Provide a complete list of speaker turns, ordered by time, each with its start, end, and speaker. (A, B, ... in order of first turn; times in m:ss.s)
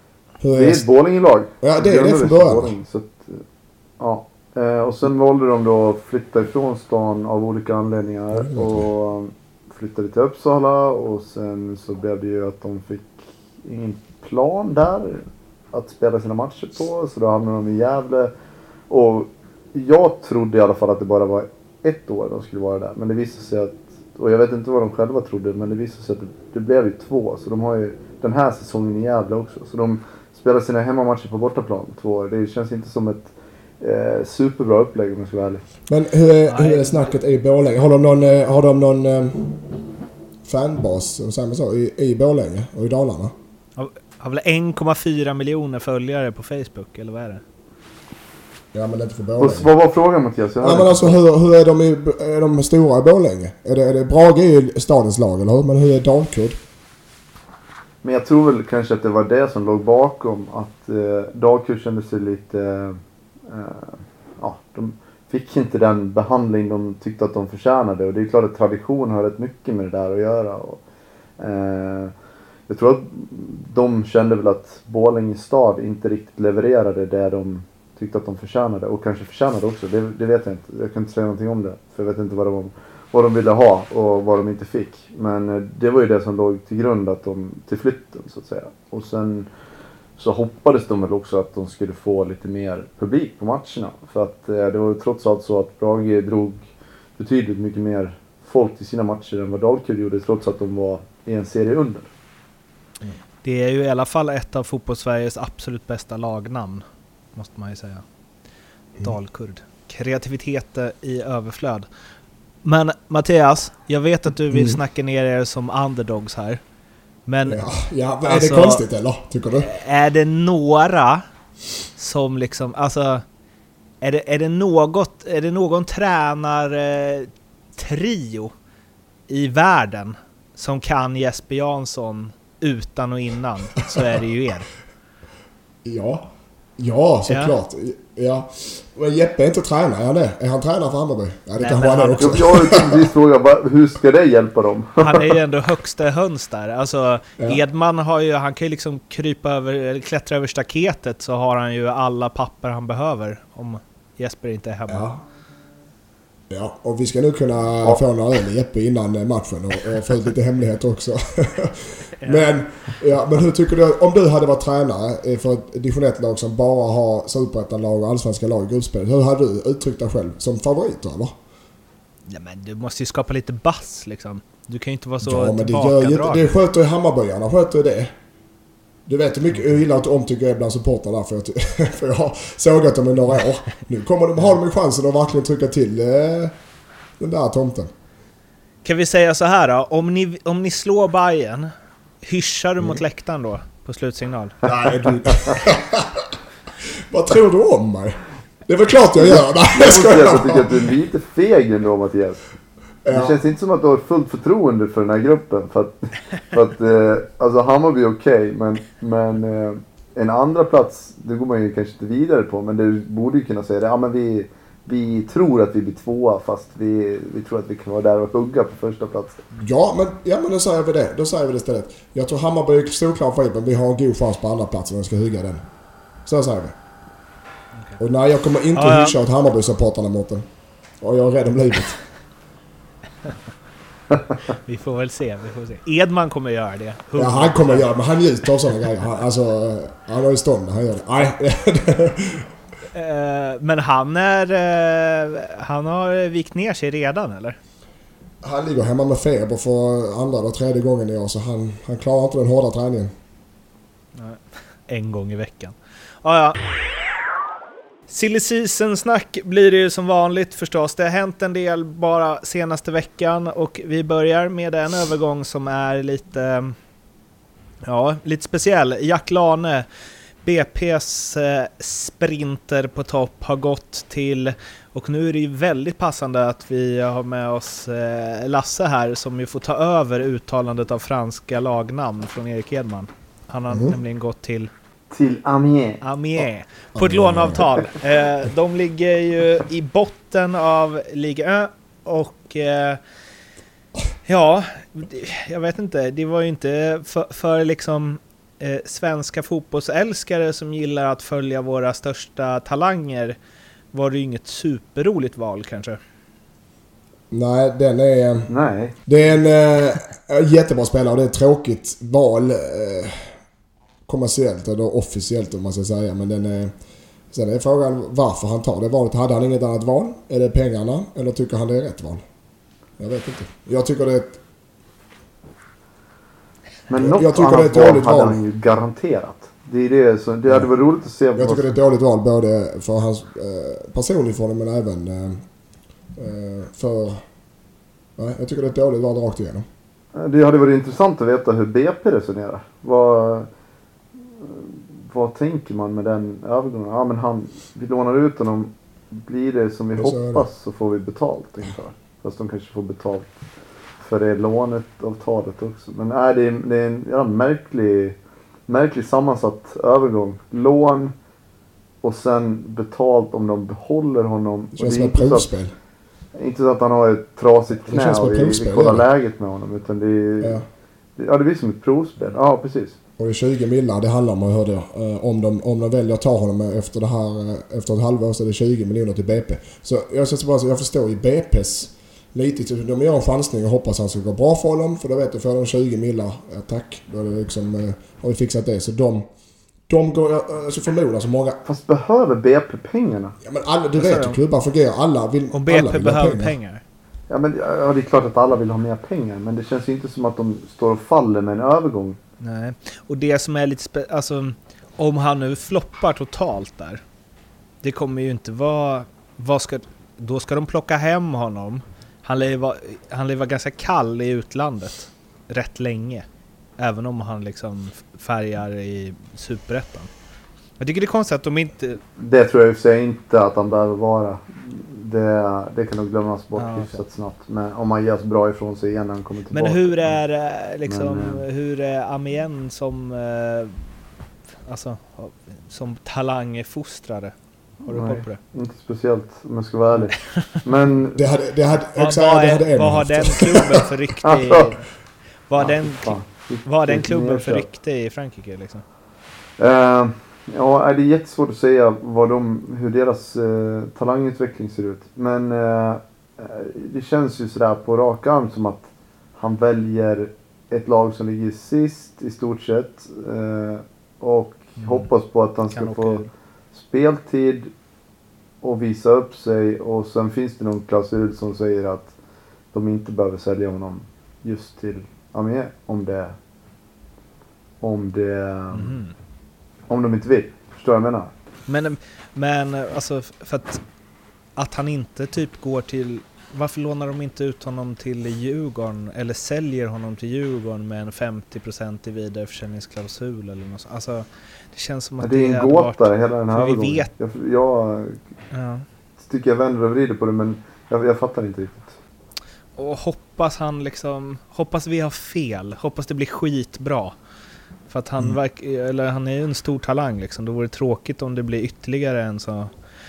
0:00.4-0:00.8 A
0:00.5-0:03.4 B
0:01.6-0:02.7 A
0:04.0-0:18.3 B
0:08.3-0:08.9 A
0:18.9-0:35.6 B
0:35.9-0:39.7 A
0:36.5-0:37.1 C
0:40.4-0:43.4 A
0:43.8-0:47.4 C
0:48.7-0:49.7 A
0:49.4-0:51.2 B
0:50.6-0:56.6 A
0:58.0-1:10.8 B
1:11.4-1:12.1 B
1:12.7-1:29.5 B
1:30.2-1:36.7 B
1:37.2-1:42.1 B
1:43.4-1:46.8 C
1:47.4-1:48.0 C
1:49.0-1:51.9 C
1:52.6-1:56.6 C
1:54.5-1:54.8 A
1:57.3-1:57.6 C
1:57.5-1:59.7 A
1:58.2-1:58.8 C
1:59.6-2:01.2 C
2:02.0-2:03.2 C
2:04.0-2:08.5 C
2:09.3-2:14.7 C
2:15.8-2:23.0 A
2:17.3-2:17.5 C
2:21.6-2:22.4 C
2:22.2-2:25.3 B
2:25.0-2:35.1 C
2:34.9-2:35.2 A
2:36.5-2:51.4 A
2:42.2-2:42.5 C
2:52.3-2:56.5 C
2:55.2-2:58.1 A
2:59.1-3:06.5 A
3:07.2-3:07.9 A
3:08.8-3:11.7 C
3:12.2-3:14.6 C
3:14.7-3:16.3 A
3:15.2-3:15.6 B
3:17.1-3:20.8 A
3:19.2-3:22.4 B
3:23.0-3:23.4 A
3:23.1-3:39.4 B
3:39.6-3:45.6 A
3:46.3-3:46.7 A
3:48.0-3:50.4 A
3:48.8-3:49.2 C
3:51.0-3:52.0 A
3:54.5-3:57.8 C
3:57.2-4:02.5 A
4:02.9-4:07.6 C
4:08.4-4:13.1 A
4:14.2-4:16.6 C
4:18.1-4:26.8 C
4:27.8-4:29.9 C
4:30.4-4:44.7 C
4:43.7-4:44.0 A
4:45.1-4:46.0 B
4:46.0-4:53.0 C
4:47.0-4:47.7 A
4:54.3-5:03.4 C
5:03.9-5:06.0 C
5:07.3-5:08.5 A
5:08.5-5:09.0 B
5:09.1-5:13.4 A
5:14.1-5:16.7 A
5:17.3-5:22.2 A
5:23.0-5:24.4 A
5:26.9-5:31.7 B
5:27.0-5:28.4 A
5:31.4-5:35.4 A
5:36.2-5:37.2 A
5:38.2-5:39.7 A
5:40.1-5:43.5 B
5:44.4-5:53.3 B
5:50.0-5:50.4 A
5:54.0-5:58.2 B
5:58.7-6:01.1 B
6:02.0-6:05.6 B
6:04.8-6:05.7 A
6:06.4-6:10.6 B
6:07.8-6:09.0 A
6:11.2-6:13.0 B
6:13.2-6:29.2 A
6:29.9-6:31.6 A
6:31.6-6:33.4 B
6:33.4-6:36.6 A
6:34.0-6:34.4 C
6:35.5-6:36.8 C
6:37.3-6:42.2 B
6:42.4-6:47.0 C
6:47.8-6:56.2 C
6:56.8-7:00.1 C
7:00.8-7:02.0 C
7:02.2-7:10.2 B
7:06.6-7:07.0 C
7:09.5-7:13.8 C
7:10.9-7:11.4 B
7:14.7-7:17.3 C
7:17.8-7:18.4 C
7:17.8-7:21.3 B
7:21.2-7:23.8 A
7:22.0-7:24.8 C
7:24.2-7:24.7 B
7:25.5-7:28.8 C
7:25.6-7:27.7 B
7:29.6-7:47.7 B
7:44.8-7:45.1 C
7:45.7-7:46.3 C
7:48.6-7:52.1 B
7:52.7-7:56.4 B
7:57.8-7:59.0 B
7:58.7-7:59.1 C
7:59.9-8:01.3 B
8:01.7-8:03.8 C
8:04.6-8:17.1 C
8:15.2-8:18.2 B
8:18.5-8:18.8 C
8:19.2-8:22.0 B
8:22.8-8:27.2 C
8:27.9-8:32.7 C